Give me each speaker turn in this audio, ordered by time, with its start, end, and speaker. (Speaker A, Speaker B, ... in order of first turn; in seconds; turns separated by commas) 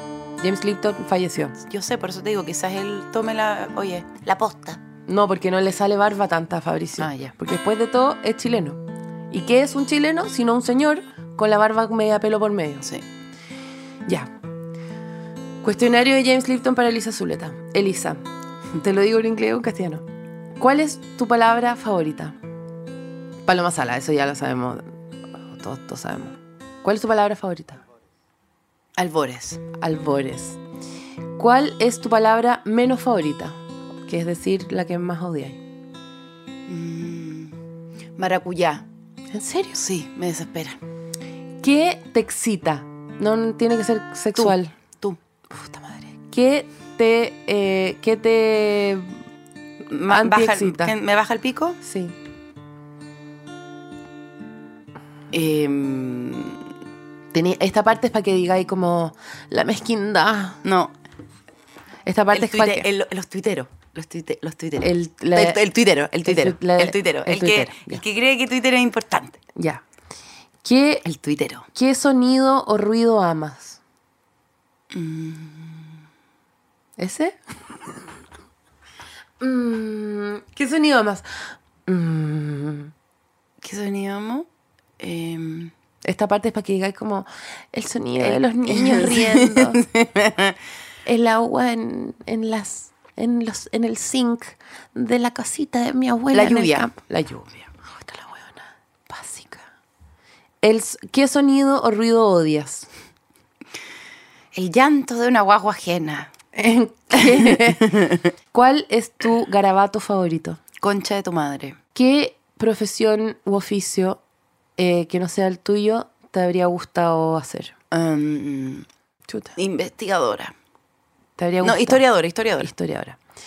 Speaker A: 0.4-1.5, Speaker B: 1.6-4.8, Speaker A: 5.1-8.8, Speaker B: 7.0-7.3, Speaker A: 9.3-12.8, Speaker A: 15.6-18.2, Speaker A: 18.8-20.0, Speaker A: 20.6-22.4, Speaker A: 23.4-24.8, Speaker A: 25.5-27.8, Speaker B: 29.0-29.6, Speaker A: 29.8-30.6, Speaker A: 31.4-35.6, Speaker B: 36.7-37.6, Speaker B: 38.1-38.8, Speaker A: 39.3-39.8, Speaker B: 39.7-40.8, Speaker A: 41.6-44.7, Speaker B: 44.4-45.2, Speaker A: 45.6-49.1, Speaker B: 49.9-51.8, Speaker A: 50.1-51.0, Speaker A: 51.8-52.1, Speaker B: 55.3-56.6, Speaker A: 57.3-60.6, Speaker B: 60.6-60.9, Speaker A: 62.0-62.9, Speaker B: 62.3-69.4, Speaker A: 64.8-65.6, Speaker A: 66.2-68.0, Speaker A: 69.5-69.8, Speaker A: 70.6-71.0, Speaker B: 71.0-71.7, Speaker A: 71.7-73.8, Speaker B: 74.9-75.9, Speaker A: 77.0-77.3, Speaker A: 79.4-81.2, Speaker A: 81.8-82.9, Speaker B: 83.6-84.5, Speaker B: 85.0-85.7, Speaker A: 86.0-89.8, Speaker B: 88.2-90.5, Speaker A: 91.0-99.7, Speaker B: 96.3-96.9, Speaker A: 100.6-102.9, Speaker B: 104.5-106.3, Speaker A: 106.5-110.6, Speaker B: 107.2-108.2, Speaker B: 110.8-111.8, Speaker A: 111.9-114.2, Speaker A: 114.8-117.7, Speaker B: 117.9-118.8, Speaker A: 119.3-119.5, Speaker B: 119.5-120.5, Speaker A: 121.4-122.0, Speaker B: 121.6-122.7, Speaker A: 122.6-123.2